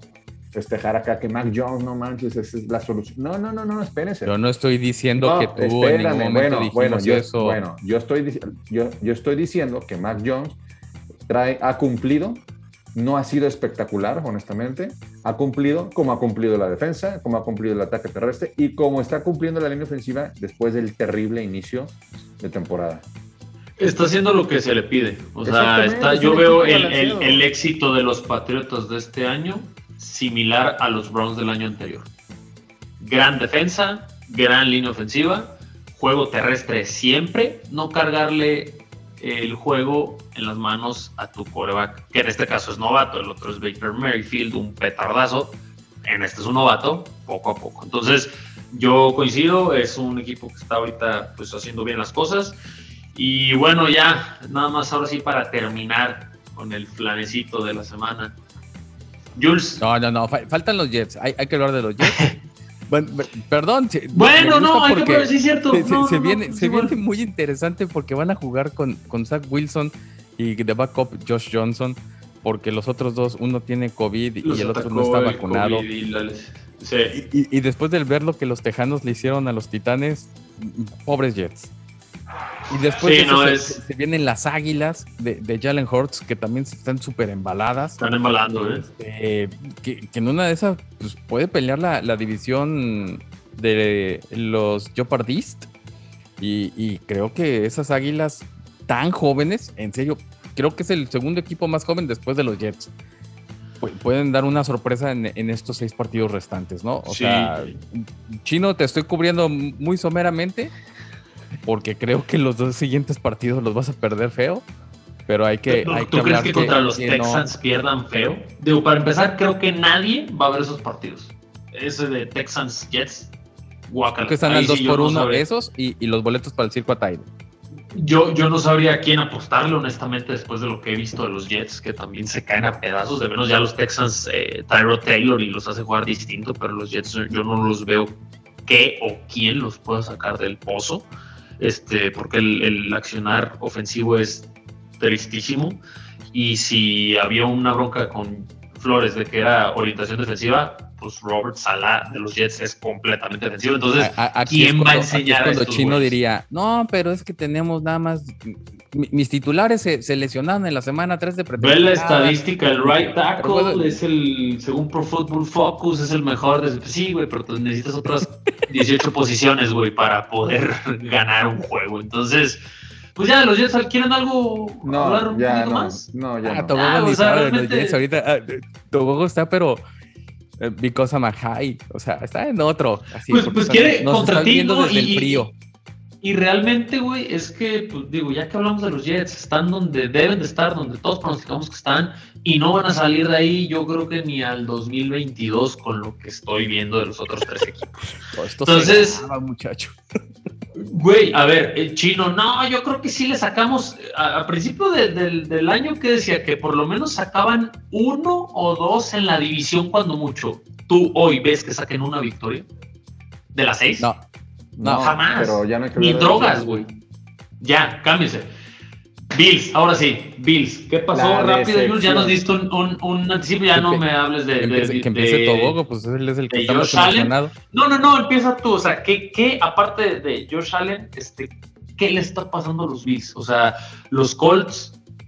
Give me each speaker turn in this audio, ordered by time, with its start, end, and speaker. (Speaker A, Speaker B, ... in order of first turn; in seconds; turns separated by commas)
Speaker A: 0.5-4.3, Speaker B: 4.2-7.6, Speaker A: 5.2-10.6, Speaker A: 11.3-12.4, Speaker A: 12.9-23.1, Speaker C: 23.8-32.1, Speaker A: 25.4-27.5, Speaker C: 33.0-52.6, Speaker C: 53.1-58.3, Speaker C: 59.4-59.8, Speaker B: 59.8-62.4, Speaker C: 62.0-62.3, Speaker B: 62.9-75.8, Speaker C: 64.1-67.0, Speaker C: 74.4-77.2, Speaker B: 77.1-81.7, Speaker B: 82.7-88.0, Speaker C: 83.0-83.8, Speaker C: 88.0-88.8, Speaker B: 88.5-95.7, Speaker B: 96.4-102.9, Speaker B: 103.8-110.7, Speaker C: 107.0-107.7, Speaker B: 111.6-114.6, Speaker B: 115.3-117.5, Speaker C: 115.7-123.3, Speaker C: 123.9-125.4, Speaker B: 124.2-127.3, Speaker C: 127.9-156.2, Speaker B: 154.0-164.0, Speaker C: 161.6-172.6, Speaker C: 173.1-176.1, Speaker A: 174.8-176.8, Speaker B: 176.4-179.8, Speaker C: 176.7-178.0, Speaker B: 180.6-185.5, Speaker C: 183.3-185.5, Speaker C: 186.2-198.1, Speaker B: 198.3-200.0, Speaker C: 198.6-199.2, Speaker C: 200.7-212.7, Speaker C: 213.5-214.1, Speaker B: 214.0-214.2, Speaker A: 214.8-216.8, Speaker B: 214.8-215.2, Speaker C: 214.9-216.9, Speaker C: 217.6-218.5, Speaker C: 219.3-225.8, Speaker A: 221.1-222.4, Speaker B: 223.7-224.0, Speaker B: 224.6-227.5, Speaker C: 226.5-235.0